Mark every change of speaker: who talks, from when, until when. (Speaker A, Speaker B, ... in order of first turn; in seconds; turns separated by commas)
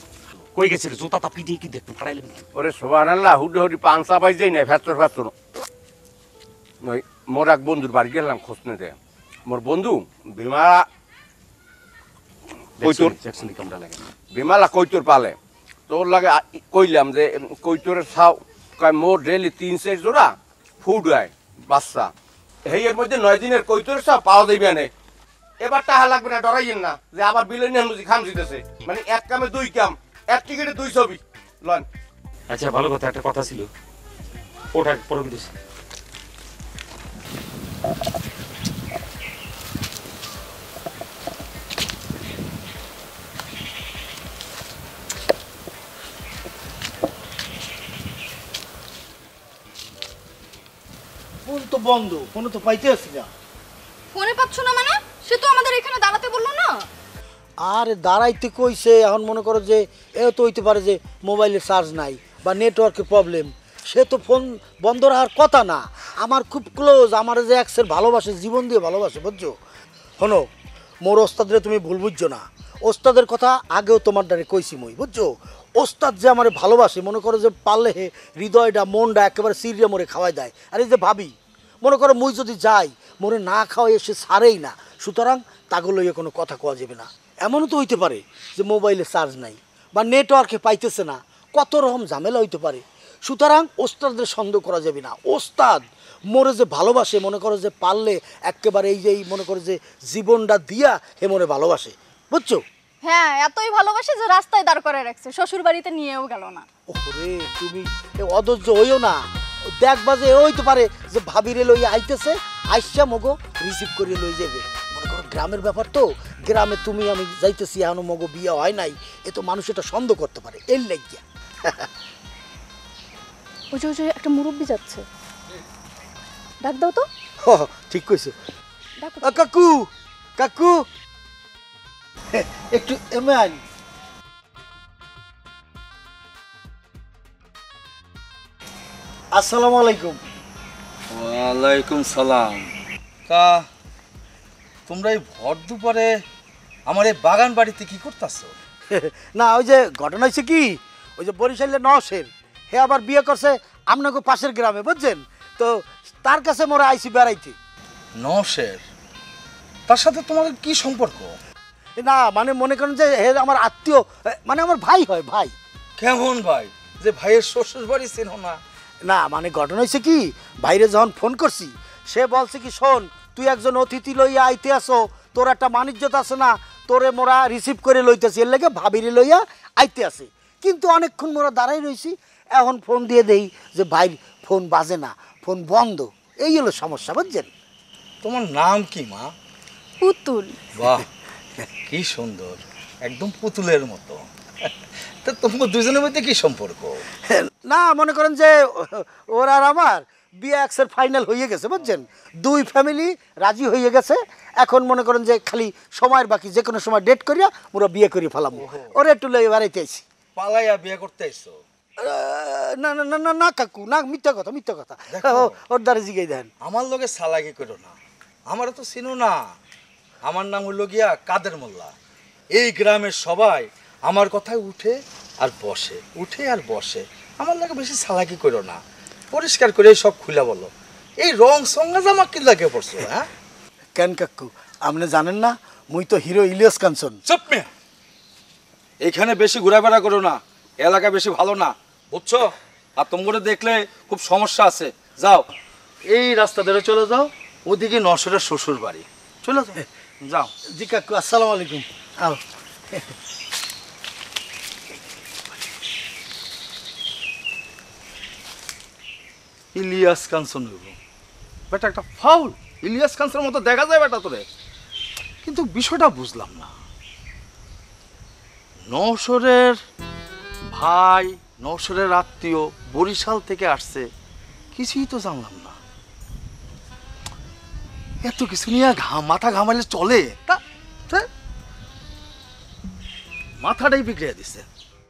Speaker A: 0.6-2.4, Speaker B: 2.5-5.3, Speaker B: 6.8-8.9, Speaker B: 9.5-10.8, Speaker A: 12.8-13.9, Speaker B: 12.8-13.3, Speaker B: 13.9-15.3, Speaker B: 15.9-20.3, Speaker B: 20.8-22.1, Speaker B: 22.7-24.9, Speaker B: 25.6-31.8, Speaker A: 32.5-33.7, Speaker A: 34.8-35.5, Speaker C: 51.5-53.3, Speaker D: 54.1-56.8, Speaker C: 57.6-69.5, Speaker C: 71.0-102.6, Speaker D: 103.0-106.7, Speaker C: 106.9-109.2, Speaker C: 109.8-121.8, Speaker D: 123.7-125.0, Speaker D: 126.6-127.1, Speaker C: 127.4-128.3, Speaker D: 129.0-129.3, Speaker C: 129.2-129.8, Speaker C: 130.4-130.8, Speaker C: 132.5-133.6, Speaker C: 139.3-140.2, Speaker E: 141.1-142.7, Speaker E: 143.3-143.6, Speaker E: 144.9-146.1, Speaker E: 146.9-148.5, Speaker C: 148.9-157.6, Speaker E: 158.2-158.8, Speaker E: 159.9-161.4, Speaker C: 162.0-165.5, Speaker E: 166.0-168.6, Speaker C: 169.1-187.5, Speaker E: 188.2-189.3, Speaker D: 190.0-190.6, Speaker E: 190.8-191.0, Speaker E: 191.9-194.7, Speaker E: 195.2-197.0, Speaker C: 197.3-210.0, Speaker E: 208.6-208.9, Speaker E: 210.4-211.6, Speaker C: 212.0-216.5, Speaker E: 215.1-215.5, Speaker E: 216.6-217.9, Speaker E: 218.5-219.4, Speaker E: 220.2-221.9, Speaker E: 222.5-228.8, Speaker E: 229.3-230.7, Speaker E: 231.2-233.3, Speaker C: 233.9-237.2, Speaker E: 237.2-237.7, Speaker E: 239.0-245.5, Speaker E: 246.1-250.5, Speaker C: 250.8-252.4, Speaker E: 259.7-260.9, Speaker E: 261.7-264.4, Speaker E: 265.4-266.7, Speaker E: 268.9-269.8, Speaker E: 270.7-274.1, Speaker E: 274.7-275.8, Speaker E: 278.2-281.3, Speaker E: 283.6-284.6